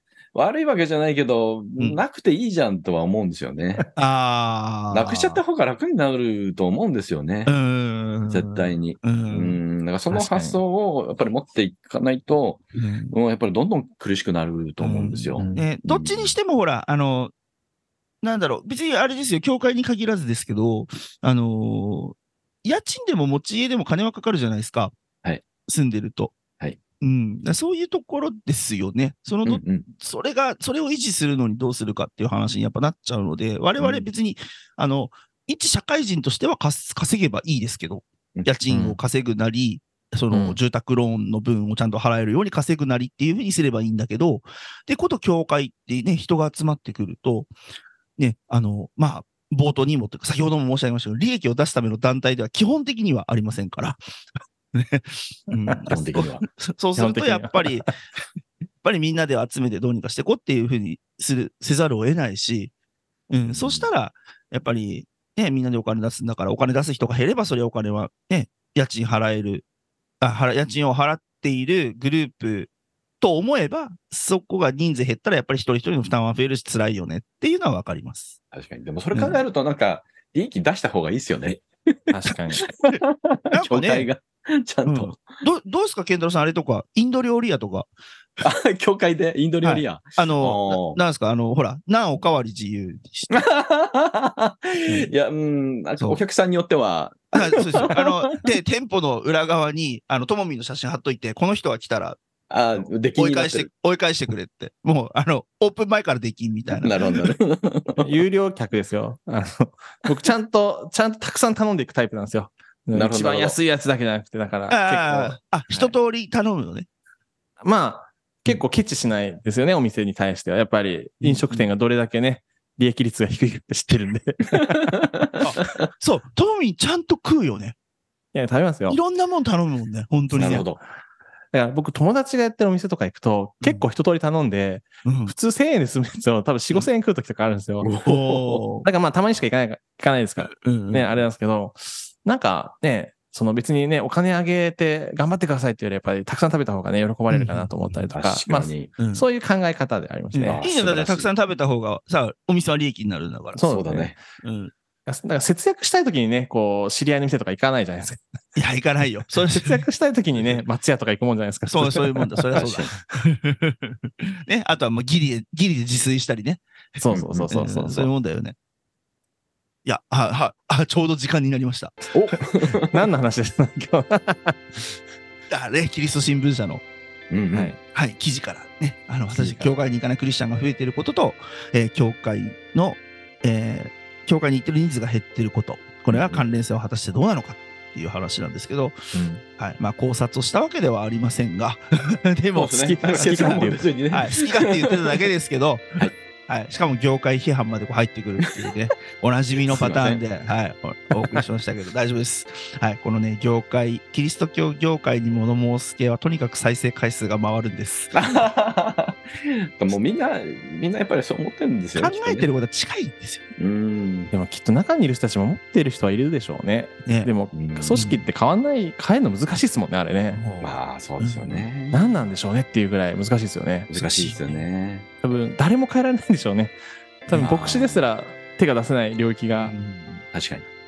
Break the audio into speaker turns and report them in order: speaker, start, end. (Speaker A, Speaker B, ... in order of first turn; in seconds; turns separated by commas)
Speaker A: 0.3-3.9, Speaker B: 4.0-5.4, Speaker A: 4.9-7.5, Speaker B: 7.5-9.6, Speaker A: 8.3-16.3, Speaker C: 10.1-10.6, Speaker B: 12.8-13.1, Speaker B: 14.8-17.3, Speaker C: 15.4-15.7, Speaker B: 18.2-24.9, Speaker B: 25.7-26.3, Speaker B: 27.0-47.5, Speaker A: 29.4-29.9, Speaker A: 33.8-34.0, Speaker C: 38.7-39.0, Speaker C: 40.3-40.6, Speaker B: 48.2-54.0, Speaker B: 54.7-57.9, Speaker A: 55.9-56.5, Speaker C: 56.9-57.9, Speaker B: 58.8-62.7, Speaker B: 63.3-69.6, Speaker A: 63.5-63.9, Speaker B: 70.2-72.7, Speaker B: 73.2-78.4, Speaker A: 78.5-85.4, Speaker B: 79.1-79.4, Speaker C: 82.1-82.6, Speaker B: 83.5-84.1, Speaker B: 84.8-87.9, Speaker A: 88.4-91.0, Speaker B: 89.6-93.4, Speaker A: 93.3-98.3, Speaker B: 97.3-102.2, Speaker A: 102.5-103.7, Speaker B: 103.2-107.2, Speaker A: 106.8-108.0, Speaker C: 108.0-115.9, Speaker A: 112.9-113.6, Speaker B: 114.7-116.9, Speaker C: 117.6-125.1, Speaker B: 121.2-121.7, Speaker A: 124.6-125.3, Speaker B: 125.4-127.7, Speaker C: 128.3-129.0, Speaker B: 128.9-130.7, Speaker A: 130.3-130.8, Speaker C: 131.5-137.9, Speaker B: 135.0-135.3, Speaker A: 137.8-138.6, Speaker B: 138.1-138.8, Speaker C: 138.8-150.6, Speaker B: 140.4-141.2, Speaker B: 147.3-147.7, Speaker A: 148.1-148.9, Speaker B: 149.0-149.2, Speaker B: 150.3-153.6, Speaker A: 150.4-151.3, Speaker C: 153.6-154.2, Speaker A: 153.6-154.2, Speaker B: 154.4-154.7, Speaker C: 155.1-158.2, Speaker B: 158.6-159.8, Speaker C: 159.5-162.3, Speaker B: 161.7-168.6, Speaker A: 162.6-162.9, Speaker C: 167.0-168.1, Speaker A: 167.1-167.5, Speaker B: 169.8-172.4, Speaker A: 172.1-173.0, Speaker C: 172.9-174.9, Speaker B: 175.5-176.8, Speaker A: 177.3-177.7, Speaker C: 177.5-177.8, Speaker B: 177.9-188.9, Speaker C: 179.3-179.7, Speaker A: 186.1-186.4, Speaker C: 189.1-189.4, Speaker B: 189.6-208.2, Speaker A: 192.6-195.2, Speaker C: 192.7-193.8, Speaker A: 199.7-200.2, Speaker A: 208.1-212.5, Speaker B: 212.0-213.4, Speaker A: 213.6-214.3, Speaker C: 214.3-220.4, Speaker B: 217.1-217.3, Speaker A: 217.5-218.0, Speaker B: 217.9-218.2, Speaker B: 220.3-221.7, Speaker A: 220.6-222.0, Speaker C: 221.9-223.9, Speaker A: 223.9-225.1, Speaker B: 224.0-224.7, Speaker C: 225.2-229.7, Speaker A: 227.3-228.0, Speaker B: 229.6-230.2, Speaker A: 230.3-230.6